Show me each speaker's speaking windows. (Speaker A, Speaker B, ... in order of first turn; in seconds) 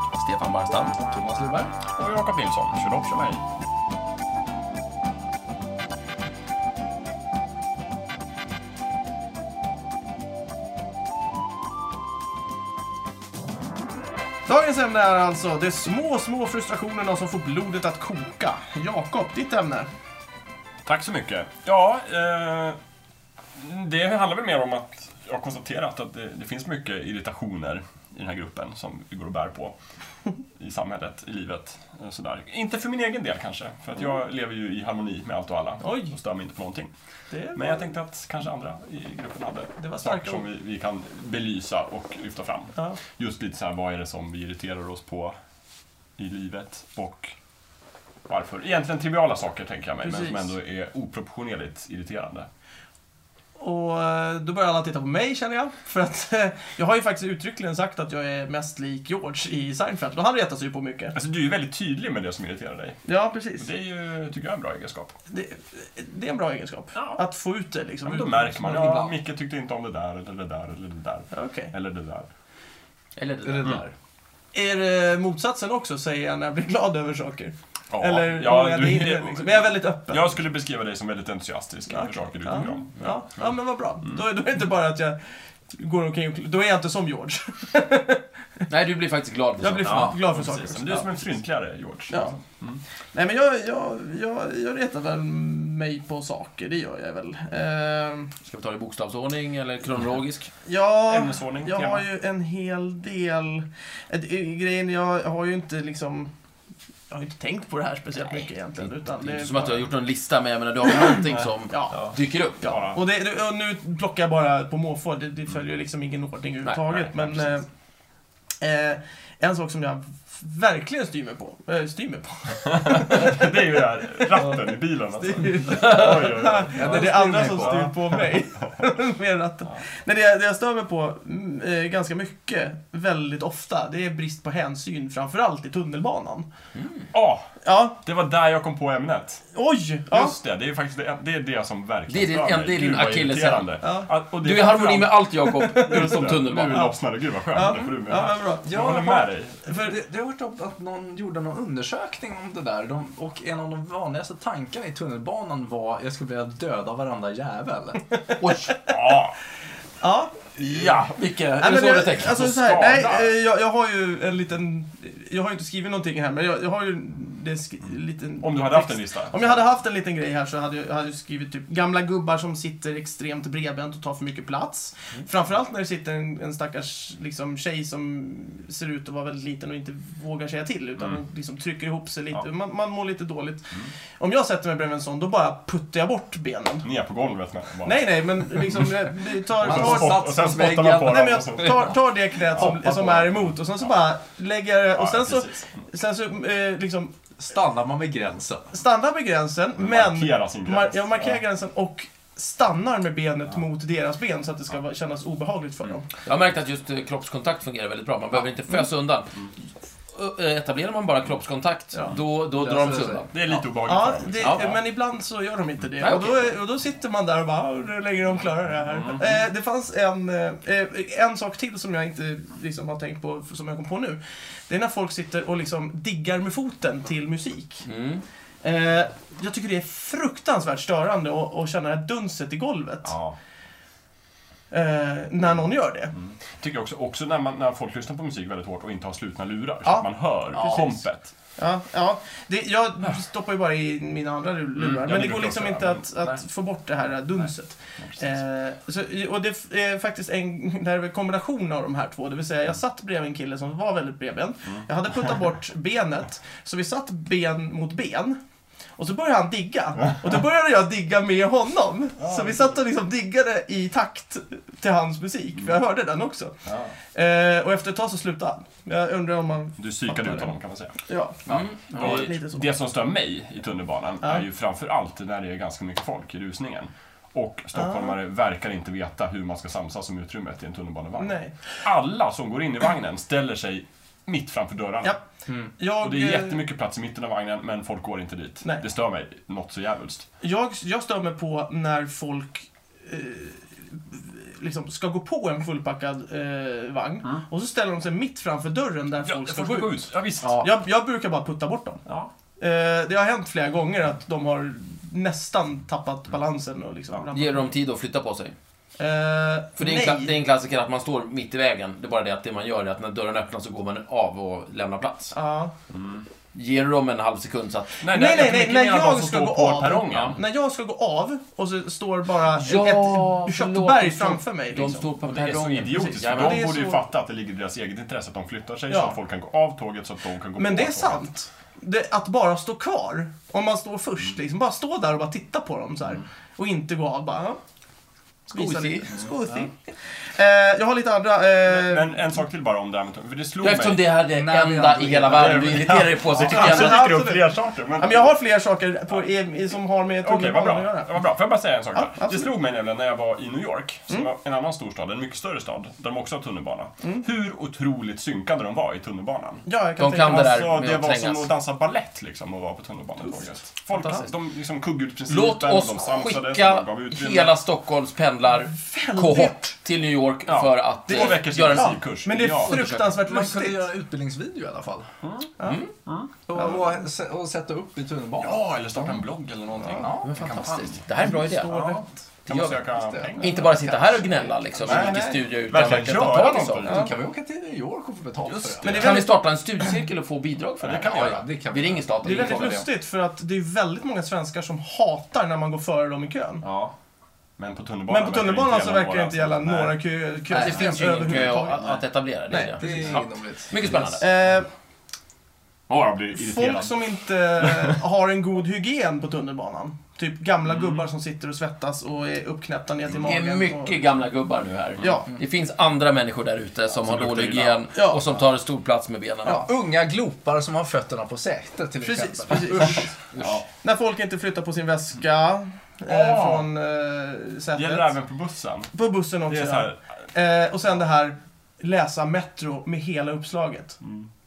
Speaker A: 0.2-1.7, 73.2-73.8, 88.7-90.1, 98.5-100.5, 108.2-108.5, 109.2-112.8, 116.7-116.9, 136.8-137.1, 142.1-143.8, 144.4-146.9, 158.4-158.8, 160.6-162.5, 206.2-209.4, 210.1-213.3, 214.4-214.7, 216.0-216.4, 227.8-228.2, 271.5-272.3, 307.3-308.6, 309.8-315.4, 316.5-318.0, 322.6-326.7, 338.5-339.1, 343.6-347.1, 360.0-361.5, 364.0-364.3, 365.3-372.0, 372.7-373.1, 375.6-375.9, 380.2-381.9, 382.5-382.8, 383.4-386.9, 389.0-392.8, 400.5-404.3, 413.2-419.6, 423.3-423.6
Speaker B: 1.9-3.4, 20.9-22.8, 23.6-29.8, 30.6-36.9, 37.5-45.4, 46.2-47.4, 48.3-52.5, 61.1-63.0, 63.6-65.2, 67.0-67.2, 68.0-72.3, 77.9-83.5, 89.8-92.8, 101.1-102.1, 111.2-113.0, 116.9-117.4, 122.7-128.6, 137.1-137.5, 138.0-139.4, 140.1-145.2, 145.8-149.6, 158.9-159.4, 160.6-161.3, 162.1-163.3, 168.4-169.5, 186.8-191.9, 192.5-193.8, 194.9-195.8, 199.8-201.4, 213.3-214.8, 218.9-219.3, 233.0-233.4, 236.2-241.3, 244.8-246.3, 248.1-248.3, 262.2-262.6, 266.7-266.9, 269.8-285.2, 286.0-290.3, 299.2-300.6, 315.9-316.3, 318.0-320.4, 325.3-331.3, 341.7-344.1, 345.3-348.4, 350.2-359.6, 360.2-367.5, 370.5-372.8, 375.2-375.5, 376.1-376.3, 378.4-384.2, 384.8-387.1, 388.4-389.2, 390.8-391.5, 396.6-396.9, 397.6-400.0, 405.9-408.0, 410.7-411.1, 417.0-417.9, 423.4-423.6, 426.1-426.7, 427.8-428.9, 429.5-430.0, 434.0-434.3
Speaker C: 14.5-19.9, 35.8-36.2, 37.3-37.9, 39.8-40.5, 50.0-50.5, 53.6-61.2, 63.1-63.7, 65.3-68.9, 71.3-71.7, 74.5-80.3, 81.9-85.2, 85.7-88.2, 89.6-91.1, 92.1-92.4, 93.1-98.3, 100.7-106.3, 107.1-109.9, 110.9-112.1, 112.6-117.7, 118.6-124.6, 125.2-136.5, 137.6-138.0, 139.5-140.3, 145.4-147.0, 147.5-149.0, 149.7-150.0, 160.0-160.5, 161.6-186.9, 187.8-190.4, 191.0-197.2, 198.7-206.1, 213.9-227.8, 228.6-233.2, 234.7-236.2, 241.6-258.4, 259.0-266.6, 267.1-270.5, 271.1-271.4, 271.9-272.6, 277.8-278.2, 281.2-281.6, 285.8-286.6, 290.4-300.0, 300.6-302.0, 302.6-307.6, 309.0-310.4, 315.3-315.7, 318.1-325.1, 325.9-327.0, 328.9-329.2, 330.6-337.6, 338.5-339.7, 340.3-342.2, 346.4-351.1, 351.9-352.5, 359.7-360.7, 363.3-364.2, 368.6-369.7, 371.1-373.9, 376.5-376.9, 381.2-382.1, 384.8-385.4, 386.9-387.1, 388.8-389.4, 392.2-396.6, 398.1-403.0, 404.1-404.7, 406.4-414.0, 415.0-415.3, 417.9-418.2, 422.0-423.1, 423.7-428.1, 428.9-434.0
Speaker D: 68.7-69.1, 73.5-73.9, 126.7-127.9, 148.6-158.1, 189.6-191.9, 197.4-198.7, 212.6-213.3, 240.6-240.9, 344.3-346.0, 372.7-375.1, 376.5-379.2, 379.9-380.4, 382.8-383.4, 386.8-389.1, 391.0-392.9, 400.5-401.5, 402.7-403.9, 419.5-423.0